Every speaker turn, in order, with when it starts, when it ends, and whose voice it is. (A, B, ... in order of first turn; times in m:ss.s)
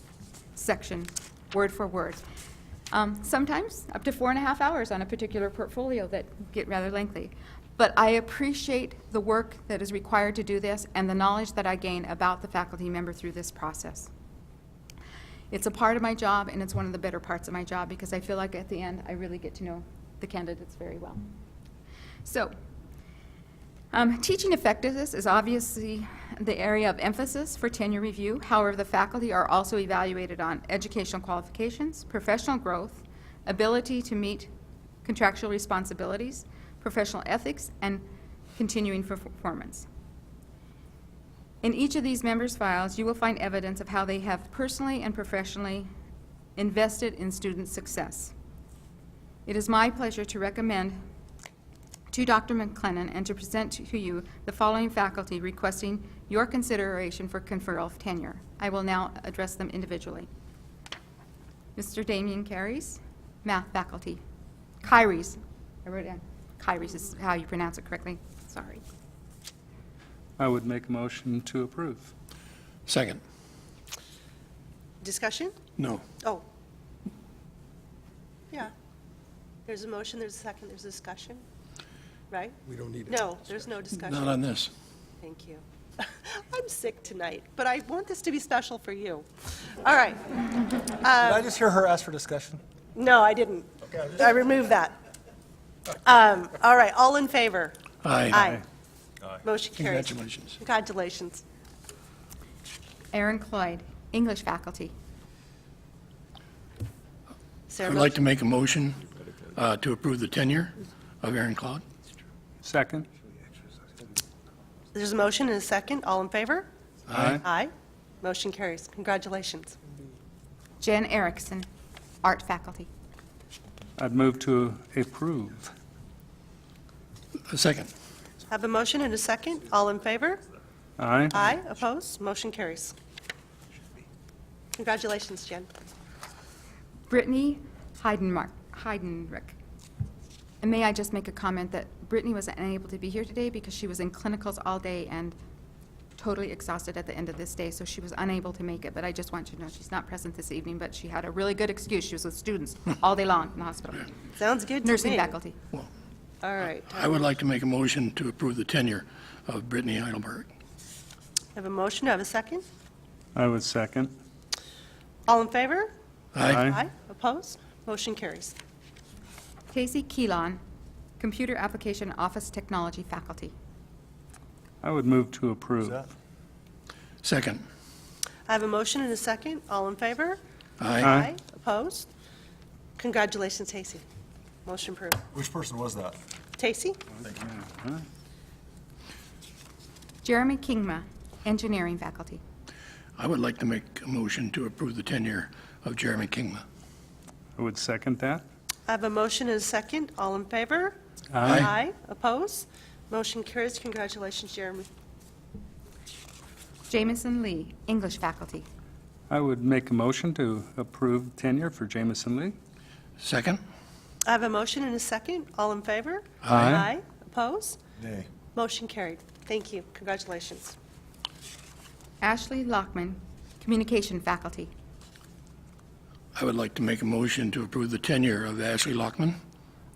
0:00.6-0:02.2 A
0:02.9-0:14.1 A
0:15.5-0:21.2 A
0:22.2-0:22.5 A
0:23.9-0:34.5 A
0:35.0-0:38.0 A
0:38.6-0:39.9 A
0:41.6-0:45.9 A
0:46.6-0:48.3 A
0:49.4-0:51.0 A
0:52.1-1:00.3 A
1:01.8-1:04.2 A
1:04.8-1:08.8 A
1:10.4-1:12.1 B
1:12.8-1:13.2 C
1:15.0-1:15.5 D
1:15.8-1:16.0 C
1:19.6-1:21.4 D
1:22.3-1:24.4 D
1:22.7-1:23.1 E
1:24.1-1:24.7 C
1:25.2-1:31.4 D
1:31.2-1:32.6 E
1:32.9-1:34.9 D
1:36.0-1:37.8 D
1:38.0-1:38.5 C
1:38.3-1:38.6 D
1:39.4-1:41.4 D
1:39.8-1:40.6 C
1:43.1-1:44.9 A
1:47.7-1:48.2 D
1:47.8-1:51.8 C
1:52.6-1:53.1 B
1:54.9-1:56.7 D
1:57.1-1:57.4 C
1:57.1-1:57.4 B
1:57.4-1:59.7 D
2:00.8-2:01.7 A
2:02.2-2:02.9 A
2:04.0-2:05.7 B
2:07.5-2:07.9 C
2:08.5-2:10.4 D
2:11.0-2:11.4 B
2:11.3-2:12.9 D
2:14.7-2:15.7 D
2:17.1-2:19.6 A
2:20.6-2:25.4 A
2:26.2-2:34.1 A
2:34.4-2:35.4 D
2:34.8-2:35.6 A
2:36.4-2:37.0 D
2:36.9-2:40.5 C
2:41.5-2:42.6 D
2:43.3-2:44.1 B
2:45.3-2:45.9 D
2:46.3-2:46.7 C
2:46.4-2:46.8 B
2:46.6-2:48.5 D
2:49.7-2:50.6 A
2:51.2-2:53.5 A
2:54.8-2:56.0 B
2:57.2-2:57.6 C
2:58.5-3:00.4 D
3:00.8-3:01.1 C
3:01.0-3:01.3 B
3:01.0-3:02.1 D
3:03.0-3:04.0 D
3:04.6-3:05.2 D
3:05.3-3:06.2 E
3:06.6-3:07.0 D
3:07.2-3:07.5 E
3:07.3-3:08.0 B
3:10.2-3:12.4 A
3:13.2-3:16.6 C
3:17.6-3:18.4 B
3:18.9-3:21.0 D
3:21.3-3:21.7 B
3:21.4-3:21.7 C
3:21.5-3:24.9 D
3:26.9-3:28.6 A
3:29.3-3:32.5 B
3:33.2-3:33.6 C
3:34.2-3:37.8 D
3:36.4-3:36.8 C
3:36.5-3:36.9 B
3:38.0-3:38.3 E
3:38.5-3:40.8 D
3:42.2-3:44.7 A
3:46.3-3:49.4 C